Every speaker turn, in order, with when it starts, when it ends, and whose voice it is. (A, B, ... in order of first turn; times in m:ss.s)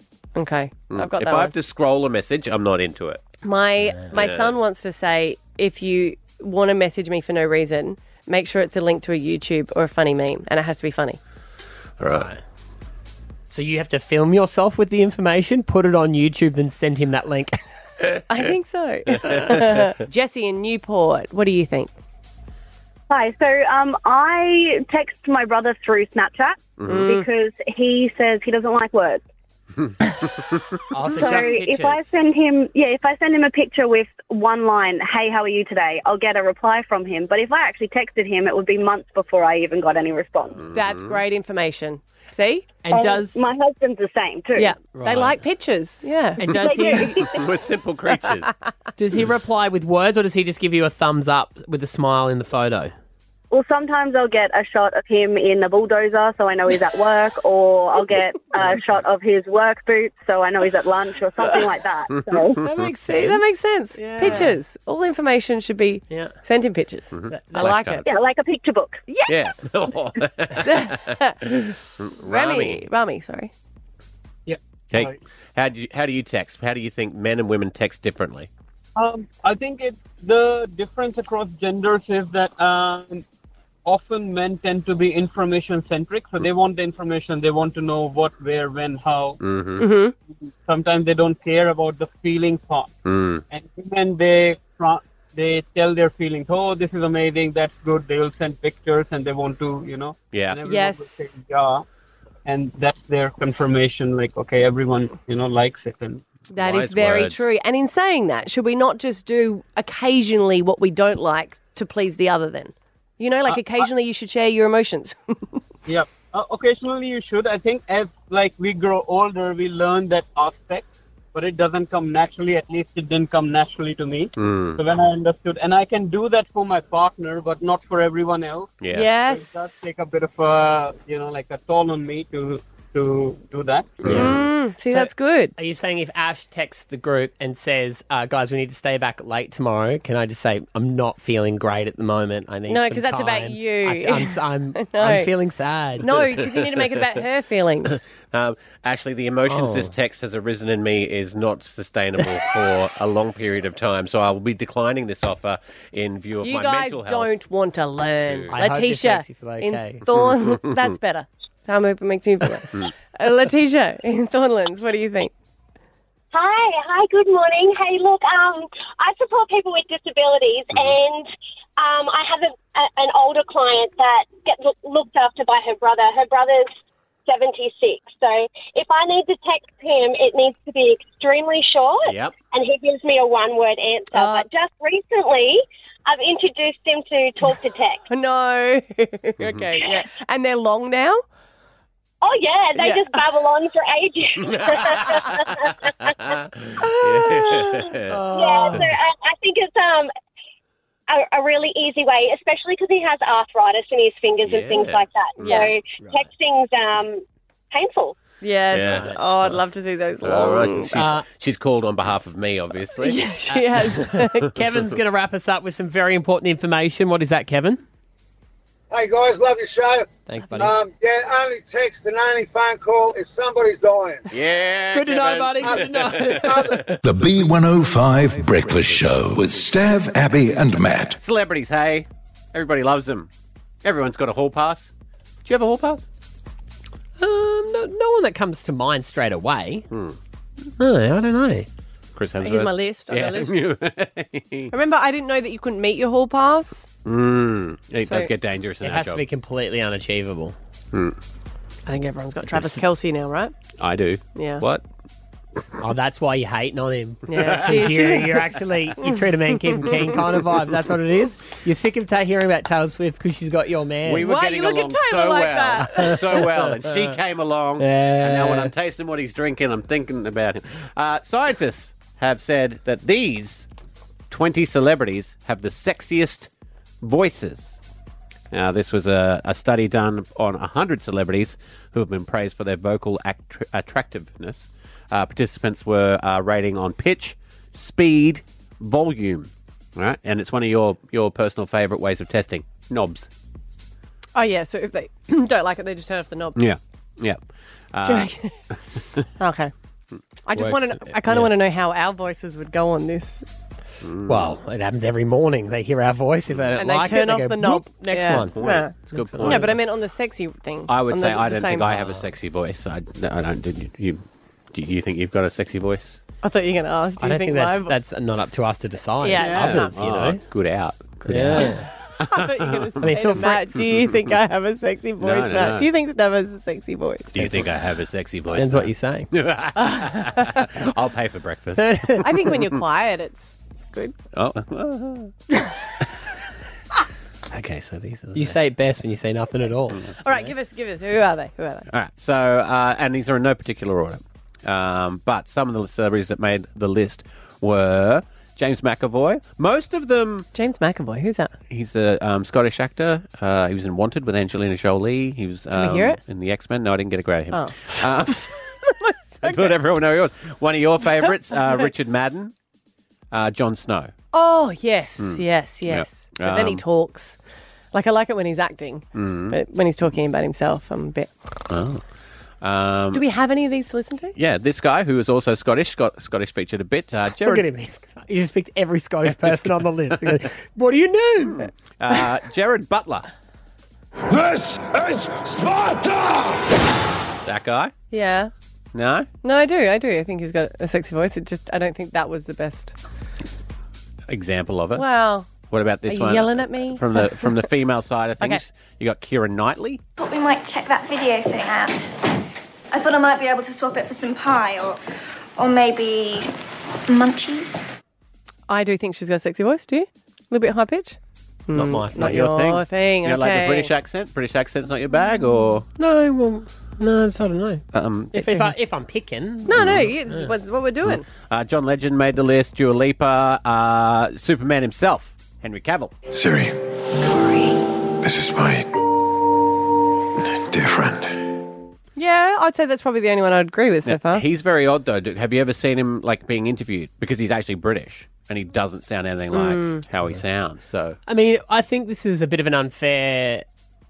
0:00.3-0:01.5 A
0:00.9-0:03.2 B
0:03.4-0:11.2 A
0:04.0-0:04.6 B
0:12.0-0:12.3 B
0:13.5-0:17.6 C
0:18.3-0:21.9 A
0:19.2-0:19.9 B
0:23.1-0:29.2 D
0:26.9-0:27.2 A
0:30.9-0:32.1 C
0:31.1-0:40.6 D
0:40.6-0:41.2 B
0:40.7-0:42.8 A
0:42.8-0:43.4 C
0:42.9-0:44.7 D
0:44.5-0:47.4 A
0:44.9-0:45.4 C
0:46.4-0:47.2 C
0:46.5-0:48.5 B
0:46.7-0:47.3 D
0:49.0-0:52.9 C
0:53.5-1:02.6 D
1:02.6-1:04.6 C
1:03.1-1:08.1 A
1:04.2-1:04.5 B
1:06.1-1:06.4 C
1:07.1-1:08.0 B
1:07.3-1:07.9 C
1:08.0-1:09.0 D
1:09.1-1:09.4 A
1:09.3-1:11.2 B
1:10.6-1:13.5 A
1:12.0-1:12.8 B
1:14.4-1:15.2 E
1:14.9-1:18.5 B
1:19.0-1:23.2 E
1:23.9-1:29.4 E
1:29.4-1:29.8 B
1:29.8-1:30.1 A
1:30.4-1:32.9 E
1:33.0-1:33.4 B
1:33.5-1:41.8 E
1:40.3-1:40.6 B
1:40.6-1:41.3 A
1:42.4-1:46.2 E
1:46.5-1:55.6 A
1:46.5-1:47.5 B
1:53.5-1:53.9 E
1:55.9-2:08.8 E
2:04.4-2:04.8 B
2:08.8-2:09.1 B
2:08.9-2:09.8 A
2:09.3-2:14.0 E
2:14.0-2:14.4 B
2:14.0-2:14.3 C
2:14.1-2:15.5 A
2:14.9-2:26.1 C
2:22.7-2:25.3 A
2:26.0-2:28.0 A
2:26.2-2:27.0 B
2:28.3-2:37.4 B
2:29.5-2:29.9 C
2:36.4-2:45.3 A
2:38.2-2:38.6 B
2:38.5-2:40.0 C
2:40.1-2:40.9 B
2:46.3-2:56.7 F
2:57.3-3:08.0 F
3:02.1-3:02.3 B
3:04.1-3:04.4 A
3:08.1-3:11.2 A
3:09.4-3:09.7 B
3:12.2-3:16.2 F
3:12.8-3:13.2 A
3:14.4-3:18.9 B
3:16.8-3:17.8 A
3:18.2-3:18.8 C
3:18.3-3:20.1 F
3:18.4-3:18.8 A
3:21.1-3:28.2 F
3:24.4-3:25.7 B
3:25.4-3:25.7 A
3:28.4-3:31.1 A
3:28.7-3:29.6 B
3:28.9-3:29.2 C
3:30.2-3:33.2 B
3:31.0-3:31.2 C
3:33.0-3:34.5 A
3:33.5-3:37.8 C
3:38.9-3:40.0 G
3:40.3-3:40.8 C
3:40.8-3:44.2 G
3:44.3-3:47.0 B
3:44.9-3:46.9 C
3:47.0-3:51.2 H
3:51.2-3:53.3 B
3:53.8-3:54.9 B
3:55.4-3:56.1 B
3:57.2-3:59.9 C
3:59.9-4:00.2 B
4:00.8-4:01.7 C
4:02.1-4:04.7 B
4:02.4-4:03.6 A
4:04.7-4:06.8 A
4:07.0-4:09.2 B
4:08.0-4:08.3 A
4:08.8-4:10.5 C
4:11.9-4:13.5 A
4:12.4-4:12.8 C
4:13.8-4:14.8 B
4:14.4-4:14.6 A
4:15.8-4:24.3 C
4:17.3-4:18.4 A
4:17.4-4:18.2 B
4:19.0-4:20.0 A
4:24.0-4:33.6 B
4:24.2-4:26.2 A
4:25.9-4:27.1 C
4:27.8-4:28.7 C
4:34.3-4:36.5 B
4:37.0-4:37.8 B
4:38.5-4:53.3 B
4:54.3-4:56.6 A
4:56.6-4:57.4 B
4:57.9-4:58.3 B
4:58.0-4:58.5 A
4:59.4-4:59.7 A
5:00.5-5:03.4 A
5:00.5-5:01.5 B
5:04.0-5:04.5 B
5:04.2-5:09.7 C
5:06.8-5:12.1 A
5:08.5-5:09.8 B
5:10.9-5:16.2 B
5:16.4-5:17.9 A
5:17.2-5:20.4 C
5:19.2-5:19.9 A
5:19.4-5:24.2 B
5:21.2-5:21.8 C
5:21.5-5:27.6 A
5:23.0-5:23.6 C
5:25.2-5:25.9 B
5:27.3-5:32.8 B
5:28.5-5:29.3 C
5:31.8-5:32.3 C
5:32.2-5:34.2 A
5:34.3-5:35.3 B
5:37.5-5:38.6 B
5:38.3-5:40.0 C
5:40.2-5:41.9 A
5:41.9-5:50.5 B
5:50.5-5:51.5 A
5:51.7-5:58.5 B
5:55.7-5:56.2 A
5:57.5-5:58.9 A
5:59.4-6:02.5 B
5:59.4-5:59.7 A
6:03.3-6:04.1 B
6:04.3-6:07.4 A
6:05.2-6:06.8 B
6:07.9-6:11.3 A
6:09.2-6:09.6 B
6:11.7-6:12.0 B
6:12.6-6:13.2 B
6:13.1-6:14.3 A
6:14.4-6:17.6 B
6:17.4-6:21.7 C
6:19.4-6:19.7 B
6:21.5-6:23.3 B
6:27.4-6:27.9 B
6:28.1-6:28.5 A
6:28.9-6:29.3 B
6:29.4-6:32.9 A
6:34.3-6:35.1 B
6:35.0-6:35.5 A
6:35.7-6:40.0 B
6:36.1-6:37.6 A
6:40.2-6:42.1 I
6:42.9-6:45.0 I
6:45.6-6:46.5 I
6:47.1-6:47.8 I
6:48.7-6:51.2 A
6:51.7-6:53.9 A
6:51.7-6:52.4 C
6:52.1-6:55.9 B
6:56.0-7:00.5 C
6:57.9-6:58.3 B
6:58.4-6:58.7 A
6:59.6-7:01.2 A
7:01.0-7:06.1 B
7:06.3-7:07.4 J
7:08.2-7:08.9 J
7:10.4-7:11.5 J
7:12.2-7:14.4 A
7:14.0-7:21.2 B
7:19.5-7:20.0 A
7:21.3-7:23.6 C